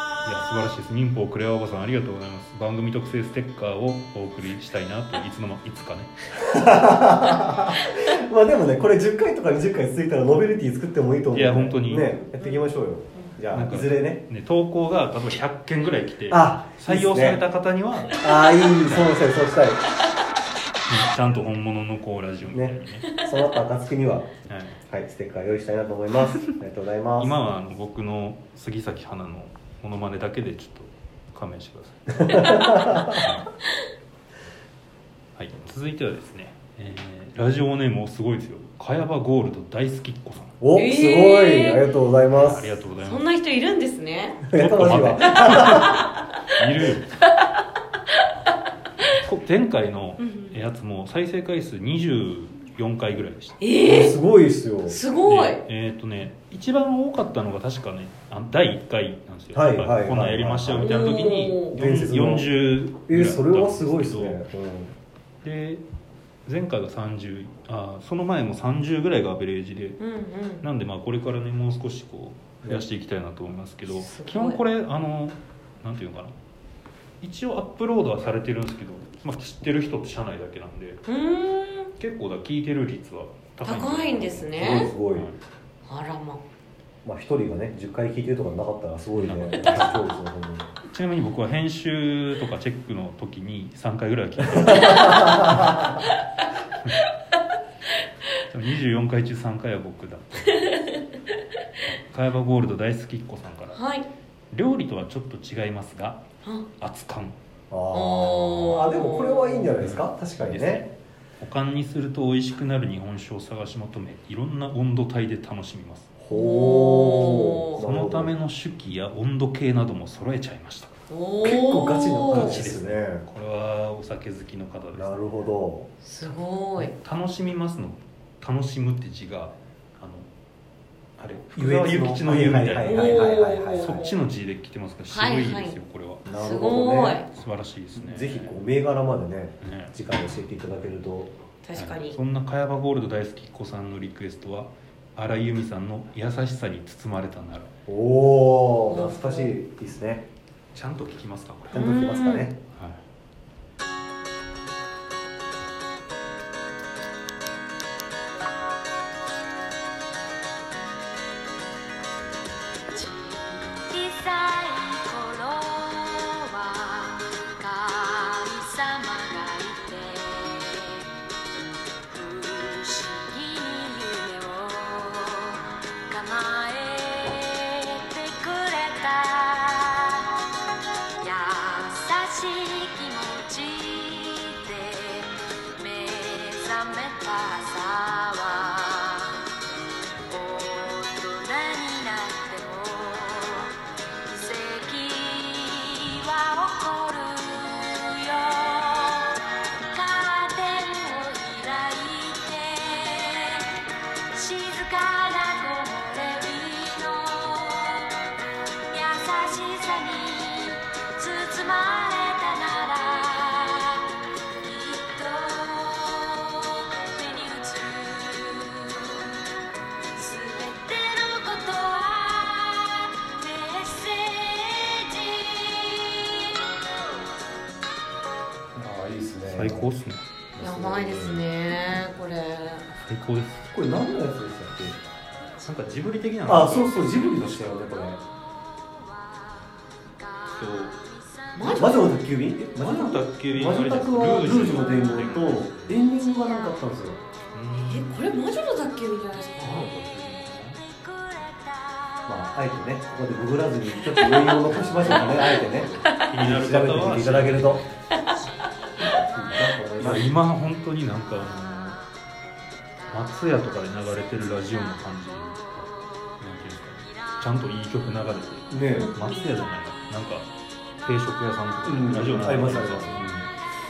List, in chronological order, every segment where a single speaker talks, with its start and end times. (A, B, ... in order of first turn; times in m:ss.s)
0:00.2-0:06.1 A
0:06.4-0:14.2 B
0:11.3-0:12.2 A
0:13.5-0:19.2 A
0:16.3-0:17.4 B
0:18.2-0:19.8 B
0:20.9-0:23.1 A
0:22.5-0:24.4 B
0:24.5-0:24.8 A
0:24.9-0:27.4 B
0:27.2-0:33.5 A
0:32.2-0:33.3 B
0:35.4-0:40.6 A
0:40.6-0:42.7 B
0:40.8-0:41.8 C
0:42.4-0:43.3 A
0:43.0-0:44.5 C
0:44.5-0:46.0 B
0:44.5-0:47.1 A
0:45.4-0:46.2 C
0:49.1-0:53.6 A
0:50.2-0:50.6 C
0:53.6-0:54.2 C
0:53.8-0:55.0 B
0:54.9-0:55.6 C
0:55.3-1:04.4 A
0:59.5-1:02.5 B
1:00.8-1:01.8 C
1:03.0-1:04.9 B
1:05.4-1:05.8 A
1:06.5-1:10.0 A
1:10.0-1:10.6 C
1:10.6-1:16.3 A
1:14.0-1:14.6 C
1:17.2-1:21.0 A
1:21.1-1:21.9 C
1:22.0-1:24.6 A
1:23.6-1:24.9 C
1:24.5-1:25.3 B
1:25.1-1:25.4 A
1:25.9-1:26.4 C
1:27.0-1:30.7 B
1:29.2-1:30.1 A
1:30.8-1:35.8 A
1:34.6-1:35.9 B
1:38.4-1:40.7 A
1:40.6-1:41.0 C
1:41.8-1:43.8 A
1:43.7-1:44.1 C
1:44.5-1:46.2 A
1:46.8-1:47.4 A
1:47.7-1:50.8 B
1:47.9-1:49.7 C
1:49.8-1:56.1 A
1:56.2-1:58.3 B
1:56.3-1:57.8 C
1:57.8-2:00.9 A
2:01.1-2:02.6 C
2:01.4-2:03.2 B
2:02.3-2:05.2 A
2:04.9-2:05.9 B
2:06.0-2:06.9 C
2:06.8-2:10.3 A
2:11.2-2:16.2 A
2:11.6-2:14.0 B
2:12.8-2:14.2 C
2:15.1-2:15.8 C
2:16.3-2:17.2 B
2:16.3-2:17.3 C
2:17.3-2:18.6 A
2:18.0-2:21.3 B
2:19.6-2:19.9 A
2:21.6-2:22.2 C
2:21.8-2:27.7 A
2:27.9-2:30.2 B
2:28.9-2:29.5 C
2:30.7-2:31.9 A
2:31.7-2:32.6 B
2:31.8-2:32.5 C
2:32.7-2:33.0 A
2:42.9-2:51.1 D
2:52.1-3:00.4 D
3:01.2-3:09.5 D
3:10.3-3:28.3 D
3:28.9-3:39.4 D
3:40.0-3:47.1 D
3:48.8-3:49.9 B
3:49.5-3:50.2 A
3:50.6-3:51.4 B
3:50.6-3:52.9 C
3:53.0-3:53.7 A
3:53.7-3:55.0 B
3:55.6-3:57.9 A
3:56.5-3:58.2 B
4:00.2-4:00.8 D
4:00.6-4:01.0 A
4:01.6-4:02.2 C
4:01.6-4:07.2 B
4:02.6-4:06.0 A
4:07.5-4:08.2 A
4:07.8-4:09.9 C
4:09.6-4:10.8 A
4:10.8-4:12.2 D
4:12.3-4:17.8 B
4:14.2-4:14.6 C
4:14.5-4:18.0 A
4:15.3-4:16.3 C
4:19.1-4:20.3 B
4:19.5-4:22.0 A
4:23.1-4:30.5 A
4:28.7-4:29.1 B
4:28.9-4:29.4 C
4:31.0-4:33.4 A
4:31.8-4:33.5 B